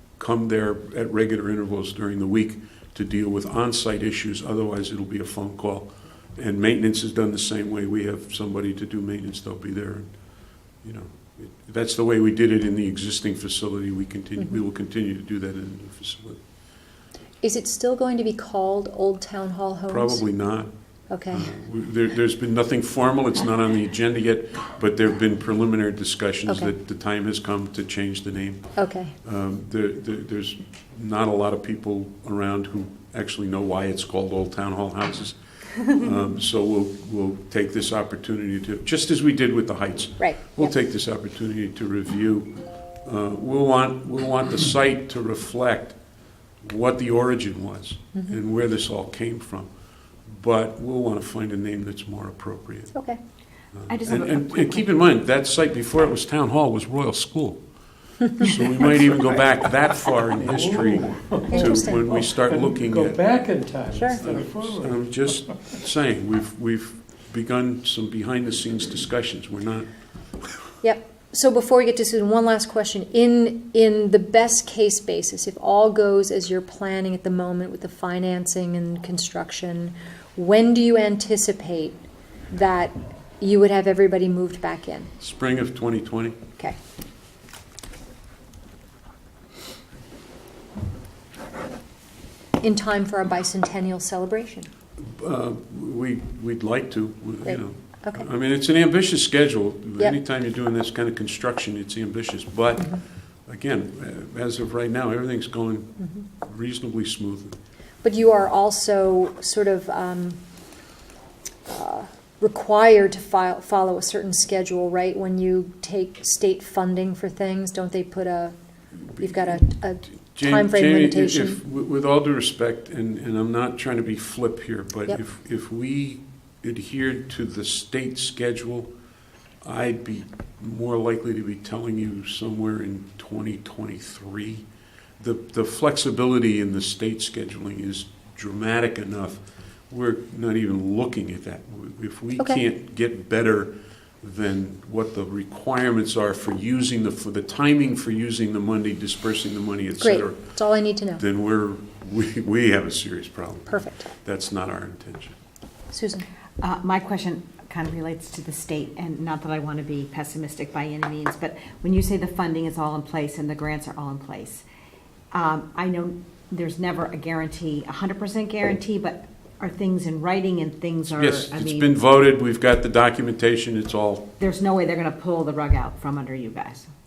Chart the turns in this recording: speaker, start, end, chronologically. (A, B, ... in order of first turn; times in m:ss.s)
0:00.2-0:10.1 A
0:10.8-0:16.4 A
0:17.4-0:20.2 B
0:19.9-0:20.7 A
0:21.1-0:21.5 B
0:21.3-0:46.0 A
0:26.5-0:26.7 B
0:28.8-0:29.1 B
0:40.2-0:40.7 B
0:46.6-0:49.7 A
0:50.3-0:52.9 A
0:52.9-0:53.2 B
0:53.9-0:57.6 A
0:53.9-0:55.0 C
0:58.3-1:03.2 A
1:00.4-1:05.1 D
1:01.5-1:02.1 B
1:03.9-1:04.2 B
1:04.2-1:09.9 A
1:10.8-1:25.1 B
1:25.2-1:26.4 A
1:32.6-1:34.7 B
1:35.0-1:47.6 A
1:37.4-1:38.2 B
1:48.0-1:50.4 B
1:51.7-1:58.6 B
1:59.1-2:08.9 A
1:59.2-2:01.6 B
2:09.6-2:14.6 A
2:15.2-2:23.7 A
2:24.2-2:30.5 A
2:30.0-2:31.2 B
2:31.2-2:35.4 A
2:33.7-2:34.1 B
2:35.9-2:36.3 B
2:36.6-2:44.6 C
2:45.3-2:51.9 C
2:51.1-2:54.3 A
2:54.4-2:56.9 C